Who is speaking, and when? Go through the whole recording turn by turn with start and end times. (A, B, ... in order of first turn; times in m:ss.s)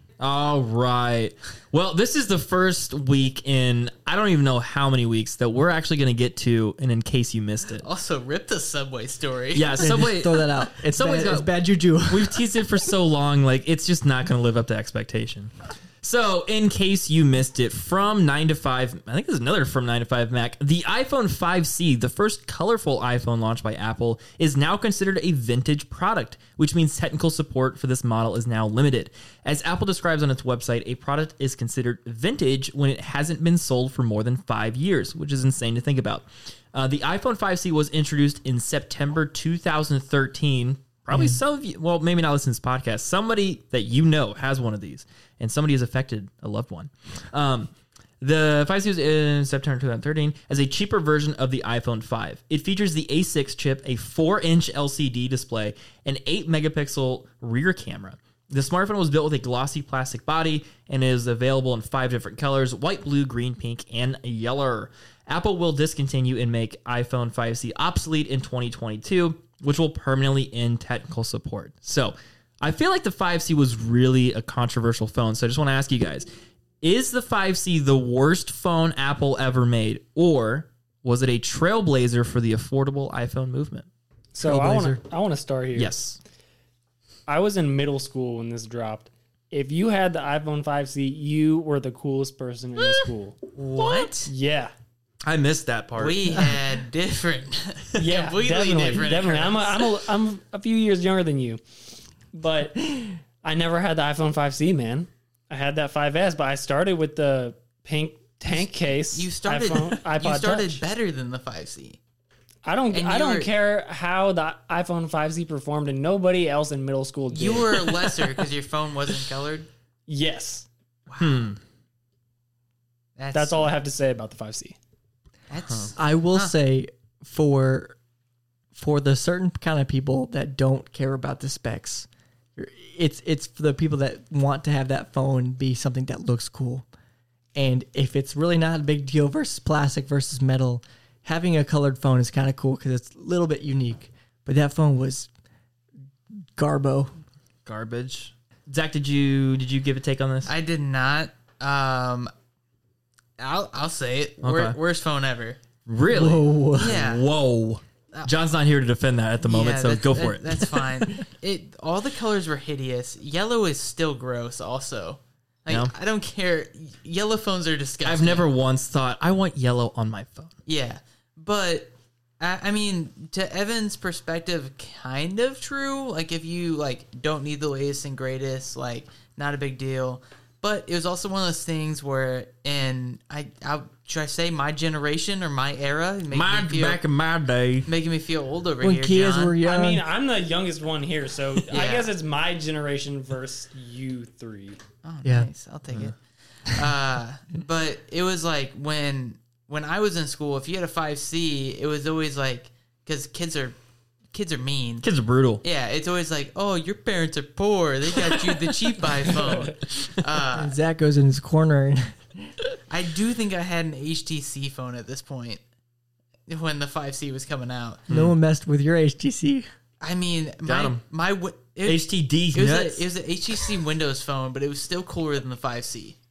0:00.2-0:07.8 A
0:07.8-0:09.9 B
0:09.5-1:16.3 A
0:09.8-0:12.4 C
0:41.1-0:41.4 C
1:16.8-1:23.9 A
1:24.3-1:25.9 D
1:24.4-1:25.0 C
1:25.8-1:26.2 A
1:27.3-1:33.4 D
1:32.8-1:33.0 A
1:33.6-1:34.3 B
1:33.8-1:34.1 A
1:34.3-1:34.7 D
1:35.2-1:36.4 A
1:36.0-1:40.0 B
1:38.0-1:41.6 D
1:42.3-1:50.8 D
1:48.5-1:52.0 B
1:52.6-1:58.3 D
1:52.9-1:53.5 B
1:57.3-1:59.7 B
2:00.1-2:00.7 D
2:01.1-2:01.5 B
2:01.2-2:01.6 A
2:03.2-2:03.7 B
2:03.3-2:04.8 D
2:05.5-2:06.5 B
2:06.0-2:08.0 C
2:08.8-2:16.9 C
2:17.6-2:25.3 C
2:26.6-2:27.1 C
2:27.7-2:30.5 A
2:30.5-2:32.3 B
2:33.4-2:35.6 B
2:34.4-2:34.8 A
2:35.8-2:40.9 A
2:36.1-2:37.0 C
2:36.8-2:37.3 B
2:39.4-2:48.4 B
2:48.0-2:50.5 A
2:50.7-3:07.0 B
3:06.3-3:07.9 A
3:07.9-3:09.6 B
3:08.8-3:10.0 C
3:09.6-3:14.8 D
3:11.7-3:12.1 B
3:15.0-3:23.8 B
3:15.2-3:15.5 C
3:24.3-3:25.1 B
3:25.0-3:25.6 A
3:25.6-3:30.8 B
3:30.5-3:32.5 C
3:32.9-3:35.6 B
3:36.5-3:38.1 B
3:38.1-3:38.4 A
3:38.1-3:39.7 C
3:40.0-3:46.2 B
3:40.6-3:41.0 A
3:41.8-3:43.1 A